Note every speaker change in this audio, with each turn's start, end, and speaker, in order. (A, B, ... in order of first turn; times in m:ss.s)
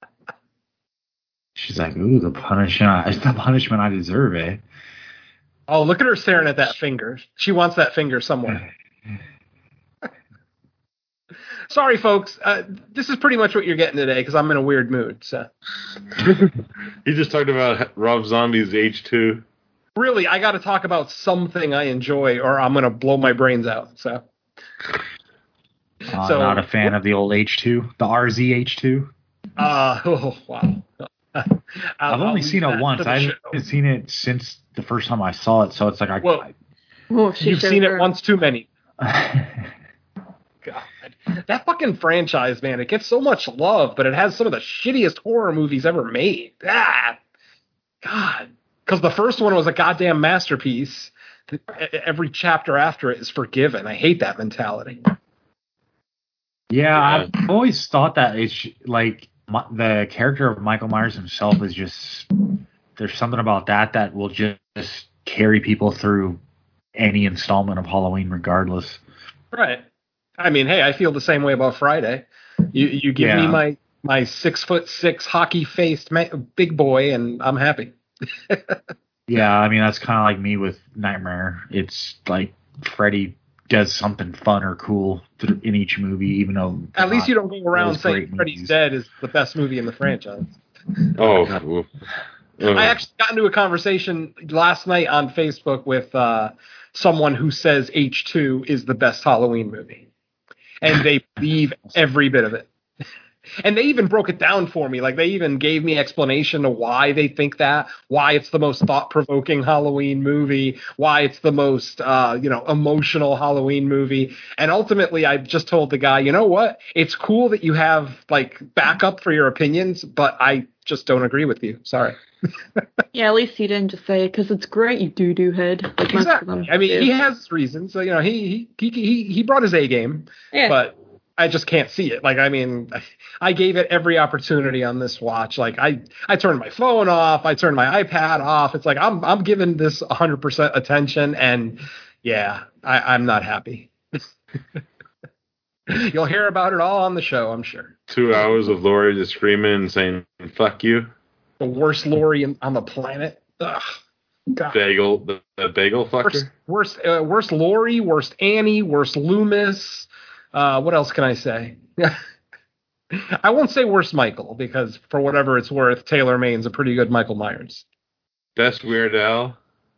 0:01.6-0:04.6 A
0:05.7-0:08.6 B
0:11.7-0:15.5 B
0:17.0-0:19.4 C
0:20.0-0:24.2 B
0:26.1-0:29.1 A
0:26.2-0:26.9 B
0:29.6-0:33.5 B
0:32.1-0:36.5 A
0:36.2-0:36.5 B
0:37.1-0:38.1 D
0:37.4-0:38.7 B
0:39.0-0:39.7 A
0:40.6-0:47.2 B
0:48.0-0:55.0 B
0:56.7-1:02.3 A
0:57.0-0:57.3 C
1:03.0-1:06.4 A
1:06.9-1:09.0 A
1:09.5-1:09.8 B
1:10.4-1:17.9 B
1:13.2-1:13.6 A
1:18.5-1:18.8 B
1:19.3-1:28.7 A
1:27.0-1:30.6 B
1:31.2-1:31.9 C
1:32.6-1:33.0 C
1:32.7-1:40.1 B
1:40.8-1:42.7 B
1:43.6-2:02.2 B
2:03.1-2:07.1 D
2:06.0-2:24.2 B
2:10.5-2:10.8 D
2:25.9-2:27.9 B
2:28.1-2:31.1 C
2:31.6-2:33.9 B
2:34.7-2:36.5 C
2:36.2-2:42.2 B
2:43.1-2:47.8 B
2:48.6-2:49.6 C